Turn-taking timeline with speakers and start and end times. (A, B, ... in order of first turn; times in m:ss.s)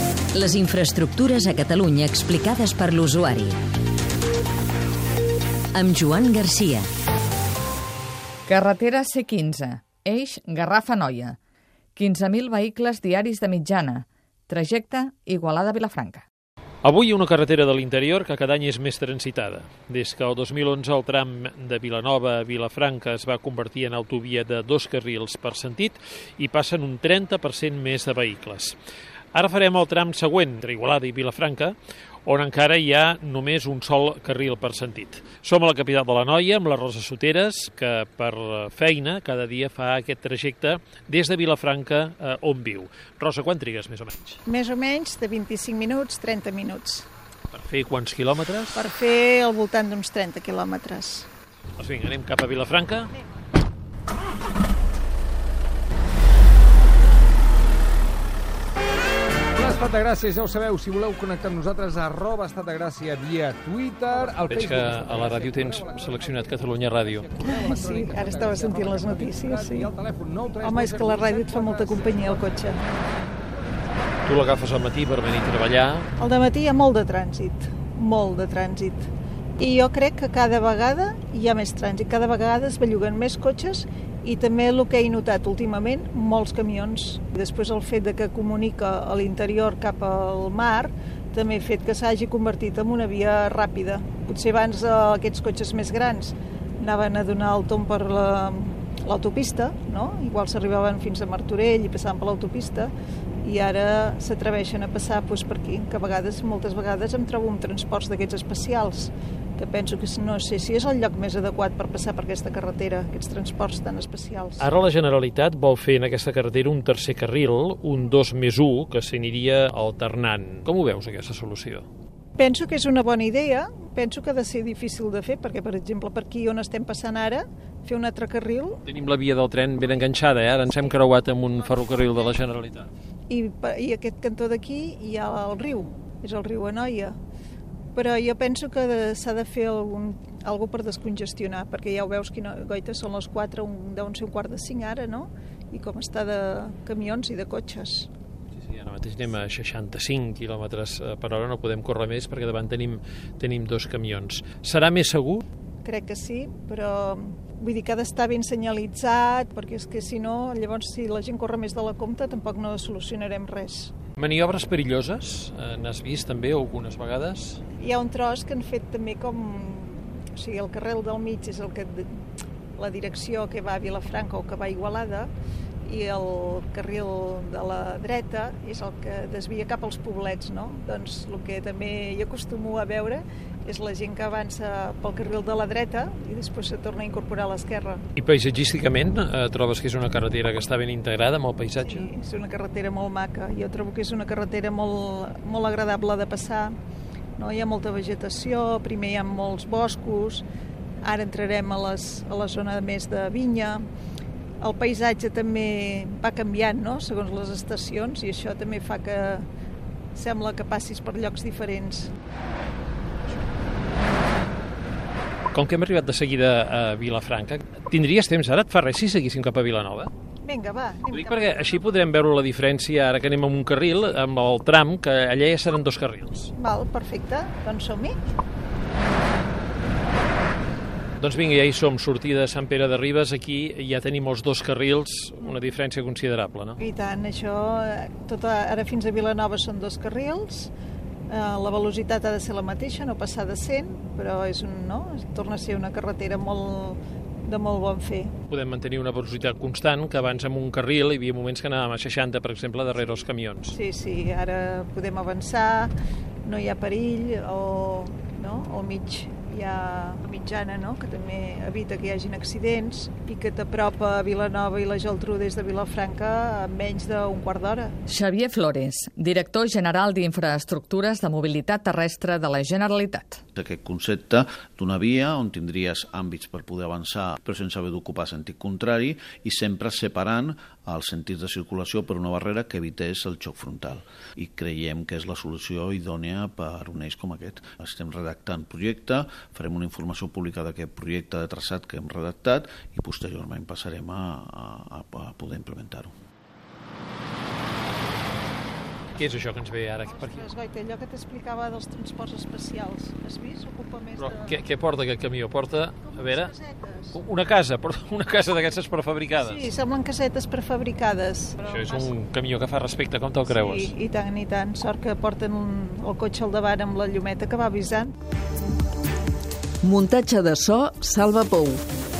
0:00.3-0:03.6 A
0:05.7-0:06.9 A
0:08.4-0:11.4 B
0:12.0-0:16.2 B
0:16.8-0:28.8 C
0:29.3-0:31.8 C
0:32.2-0:44.4 C
0:44.4-0:47.1 D
0:47.5-0:48.8 C
0:48.7-0:51.3 D
0:51.8-0:53.1 C
0:59.5-1:06.5 E
1:04.5-1:07.3 C
1:07.1-1:12.8 E
1:07.4-1:09.9 D
1:10.6-1:12.8 D
1:14.2-1:16.1 C
1:16.2-1:42.9 D
1:43.4-1:54.7 D
1:54.6-2:01.9 C
2:02.4-2:08.8 D
2:08.9-2:12.9 C
2:13.3-2:17.2 D
2:18.0-2:28.1 D
2:28.6-2:35.4 C
2:35.8-2:43.9 D
2:44.2-2:47.6 C
2:47.8-2:52.2 D
2:52.8-2:55.3 D
2:55.8-3:08.0 D
3:08.2-3:12.1 C
3:11.8-3:16.8 D
3:17.4-3:20.4 D
3:21.0-3:23.8 D
3:24.6-3:29.5 D
3:30.1-3:32.1 D
3:35.5-3:40.1 C
3:40.4-3:42.0 D
3:41.1-3:46.5 C
3:46.6-3:48.2 D
3:51.2-3:56.8 C
3:56.8-4:00.7 D
4:01.3-4:08.3 D
4:08.5-4:13.8 C
4:13.7-4:15.9 D
4:16.4-4:28.0 D
4:28.1-4:33.4 B
4:33.6-4:56.1 F
4:59.2-5:00.4 C
5:00.1-5:04.5 D
5:04.2-5:06.5 C
5:06.1-5:07.2 D
5:07.1-5:09.6 C
5:09.4-5:12.1 D
5:11.6-5:13.9 C
5:13.5-5:18.1 D
5:19.8-5:21.8 G